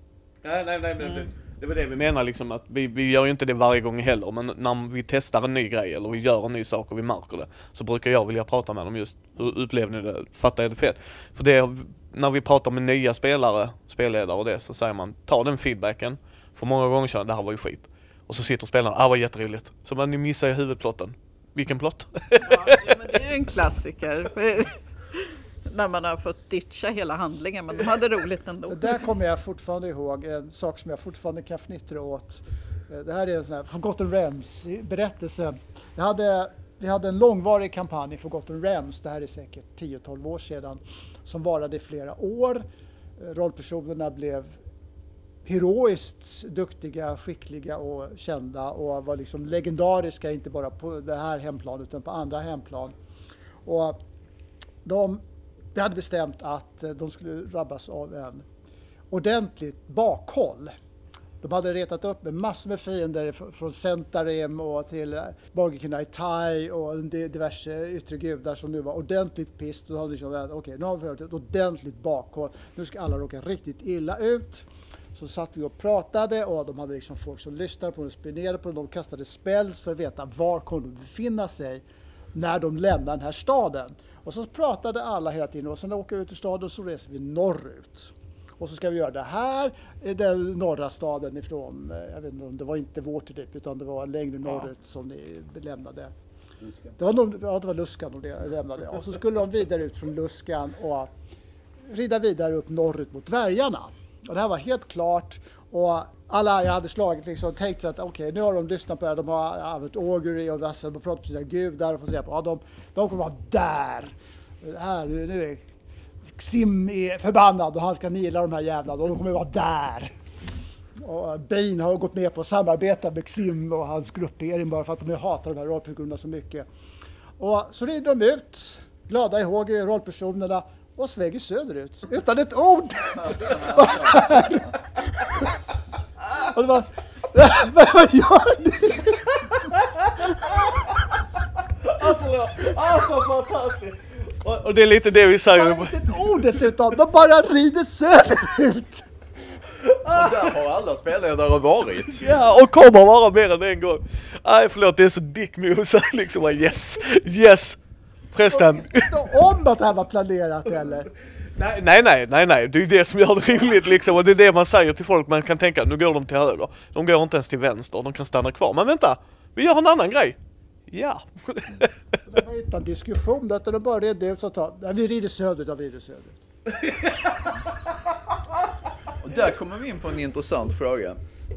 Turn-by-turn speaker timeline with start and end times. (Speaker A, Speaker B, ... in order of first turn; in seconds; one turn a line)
Speaker A: 0.4-23.1
Speaker B: 22.4-29.0
Speaker C: 28.7-42.6
Speaker C: 43.2-44.6
Speaker C: 45.4-52.9
Speaker C: 53.6-54.0
Speaker C: 54.8-55.2
Speaker C: 55.7-58.5
Speaker C: 59.1-60.7
Speaker C: 61.4-96.1
Speaker C: 97.0-101.1
Speaker C: 101.8-115.6
Speaker C: 116.2-120.2
Speaker C: 121.0-126.7
Speaker C: 127.4-135.6
Speaker D: 133.4-133.9
Speaker C: 136.3-139.3
Speaker A: 140.1-140.3
Speaker A: 141.8-145.9
Speaker C: 145.5-149.1
Speaker D: 150.0-152.2
Speaker A: 152.2-157.8
Speaker A: 158.3-159.1
Speaker C: 158.5-161.1
Speaker A: 161.5-171.9
Speaker C: 172.3-176.4
Speaker A: 176.8-177.3
Speaker D: 179.2-181.2